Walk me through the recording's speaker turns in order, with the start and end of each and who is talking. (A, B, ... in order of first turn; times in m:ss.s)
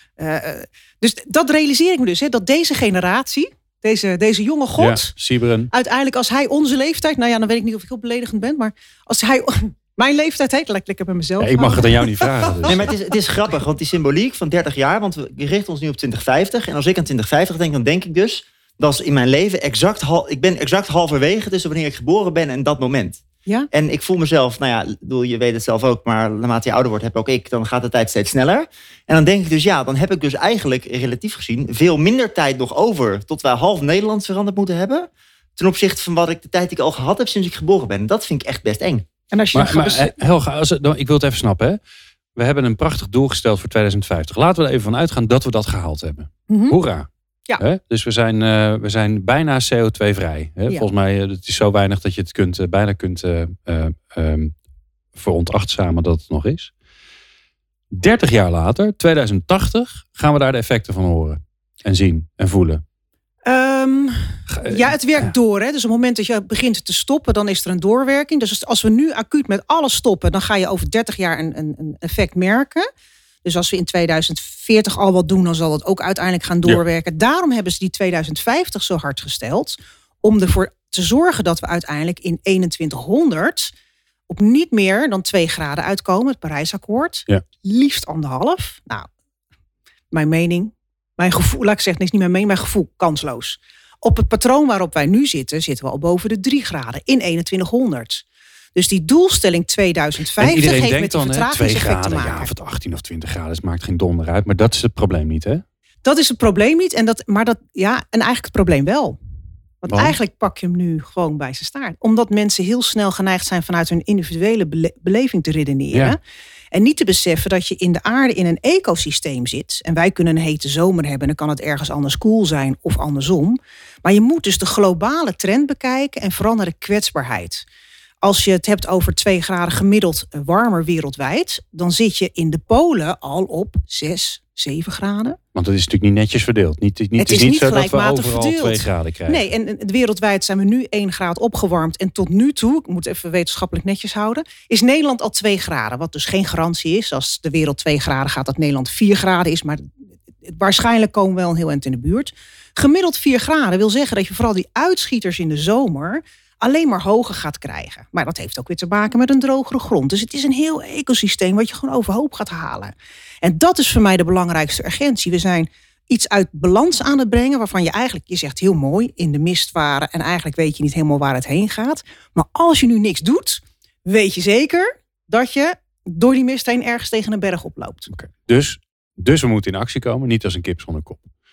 0:00.2-0:05.1 A
0:04.8-0:05.7 B
0:05.7-0:12.7 A
0:11.4-0:12.8 B
0:12.7-0:39.0 C
0:39.3-0:40.1 A
0:39.5-0:41.8 B
0:42.4-0:47.1 B
0:46.5-0:46.8 A
0:47.6-0:54.5 B
0:55.1-0:56.7 B
0:57.9-1:02.8 B
1:03.4-1:12.8 A
1:04.5-1:05.3 B
1:13.4-1:23.7 A
1:24.3-1:29.1 A
1:30.1-1:38.2 A
1:38.7-1:42.5 A
1:40.4-1:45.6 B
1:46.0-1:49.2 A
1:49.8-1:56.2 A
1:49.9-1:50.2 B
1:56.7-2:07.6 A
2:08.2-2:15.4 A
2:15.5-2:19.5 B
2:17.2-2:29.9 A
2:30.4-2:58.1 A
2:58.1-3:01.3 B